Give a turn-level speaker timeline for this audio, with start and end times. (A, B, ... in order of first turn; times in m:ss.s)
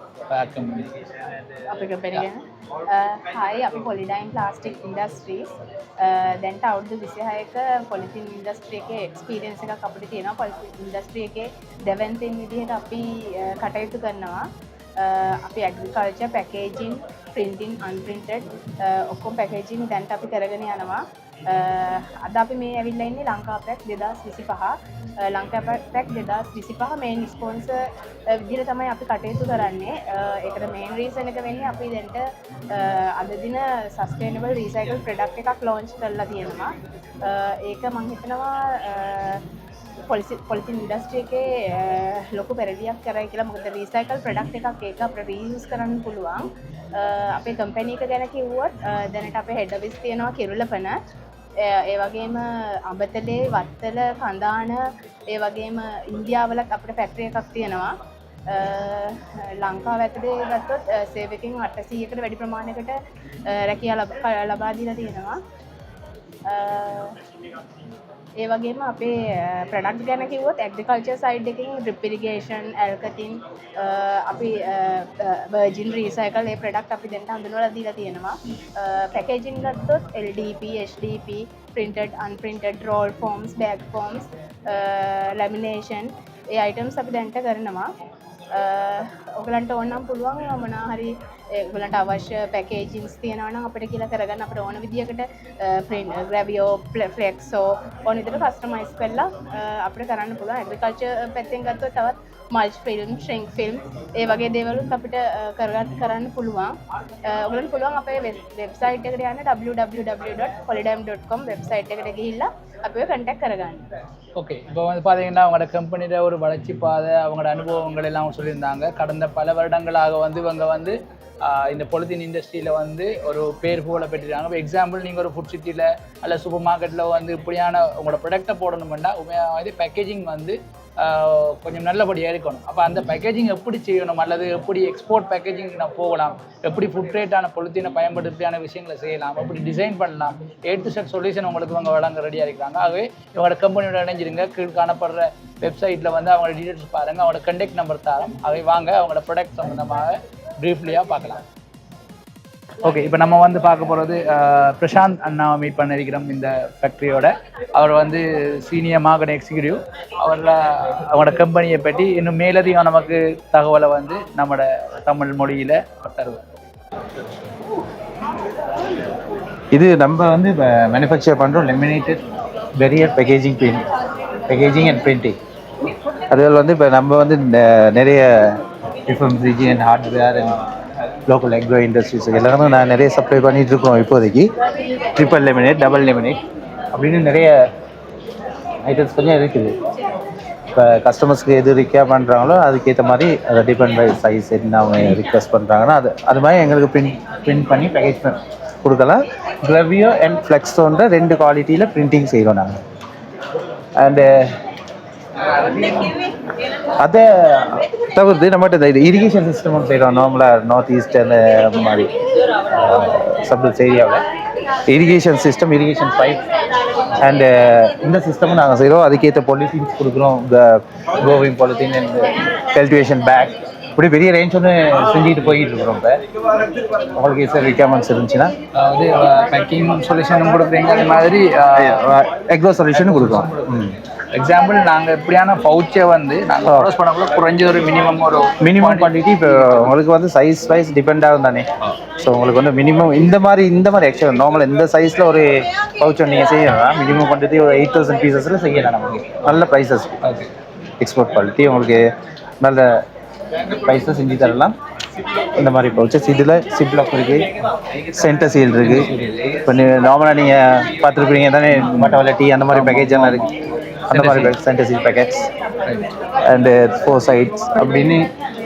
0:00.3-0:00.9 A
0:01.7-0:14.5 B
0:15.0-0:39.4 B
0:40.1-0:51.0 B
0:51.6-0:58.0 B
0:58.5-1:05.4 B
1:06.5-1:07.2 B
1:08.4-1:27.9 B
1:28.6-1:53.9 B
1:54.3-2:31.4 A
2:32.8-2:46.5 A
2:49.7-2:52.2 C
2:52.8-2:53.9 C
2:54.5-2:55.4 C
2:56.3-3:00.6 C
3:01.3-3:04.5 C
3:05.1-3:06.4 C
3:06.9-3:07.6 C
3:08.8-3:09.8 C
3:10.7-3:22.8 C
3:24.0-3:24.6 C
3:25.6-3:26.1 C
3:27.0-3:32.1 C
3:32.7-3:34.2 C
3:34.9-3:36.4 C
3:37.2-3:46.2 C
3:47.0-3:48.5 C
3:48.7-3:52.1 A
3:51.8-3:54.0 C
3:52.9-4:00.0 A
3:58.6-4:10.2 C
4:11.0-4:12.1 C
4:12.6-4:13.0 C
4:13.7-4:14.8 C
4:15.5-4:17.5 C
4:18.0-4:23.5 C
4:18.8-4:19.6 A
4:21.8-4:23.5 A
4:24.1-4:24.5 A
4:24.1-4:25.5 C
4:26.4-4:28.3 C